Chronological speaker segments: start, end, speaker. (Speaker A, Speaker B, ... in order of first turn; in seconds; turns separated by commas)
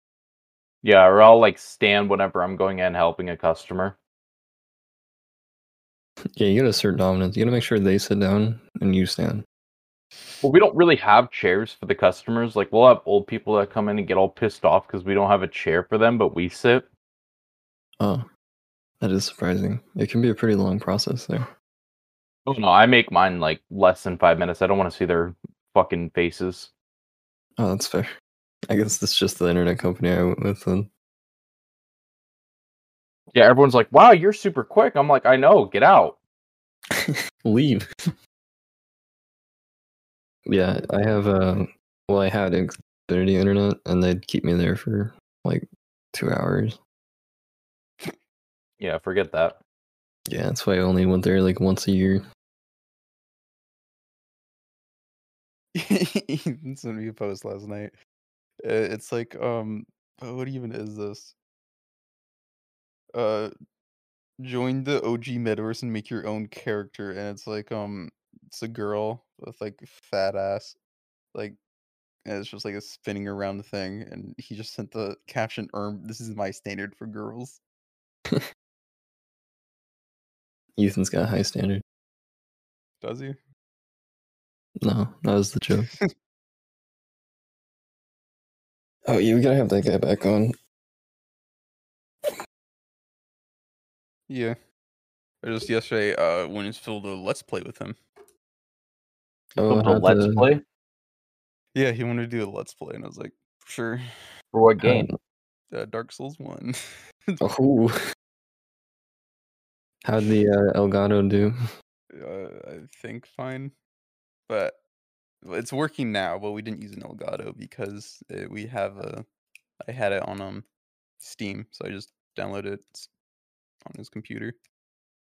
Speaker A: 0.8-4.0, Speaker B: 6.3-9.4, Speaker A: 10.4-16.9, Speaker B: 18.0-18.2, Speaker B: 19.0-21.5, Speaker A: 22.4-26.7, Speaker B: 27.6-28.1, Speaker B: 28.7-30.9, Speaker A: 33.3-36.2, Speaker B: 37.0-37.9, Speaker B: 40.5-46.8, Speaker A: 48.8-49.6, Speaker B: 50.3-52.2, Speaker C: 55.7-57.9, Speaker C: 58.6-61.4, Speaker C: 63.1-63.5, Speaker C: 64.4-70.8, Speaker C: 71.3-71.6, Speaker C: 72.2-77.6, Speaker B: 80.8-81.8, Speaker C: 83.0-83.4, Speaker B: 84.8-85.9, Speaker B: 89.0-90.5, Speaker C: 94.3-94.5, Speaker C: 95.4-98.0, Speaker B: 99.6-100.5, Speaker A: 99.6-100.6, Speaker C: 101.7-104.0, Speaker A: 104.5-105.1, Speaker B: 104.8-105.2, Speaker C: 105.7-106.7, Speaker B: 107.4-108.0, Speaker B: 110.0-111.5, Speaker C: 112.1-113.7, Speaker C: 114.5-114.8, Speaker C: 115.4-119.2, Speaker C: 119.8-120.7, Speaker C: 121.2-123.1, Speaker C: 123.9-124.5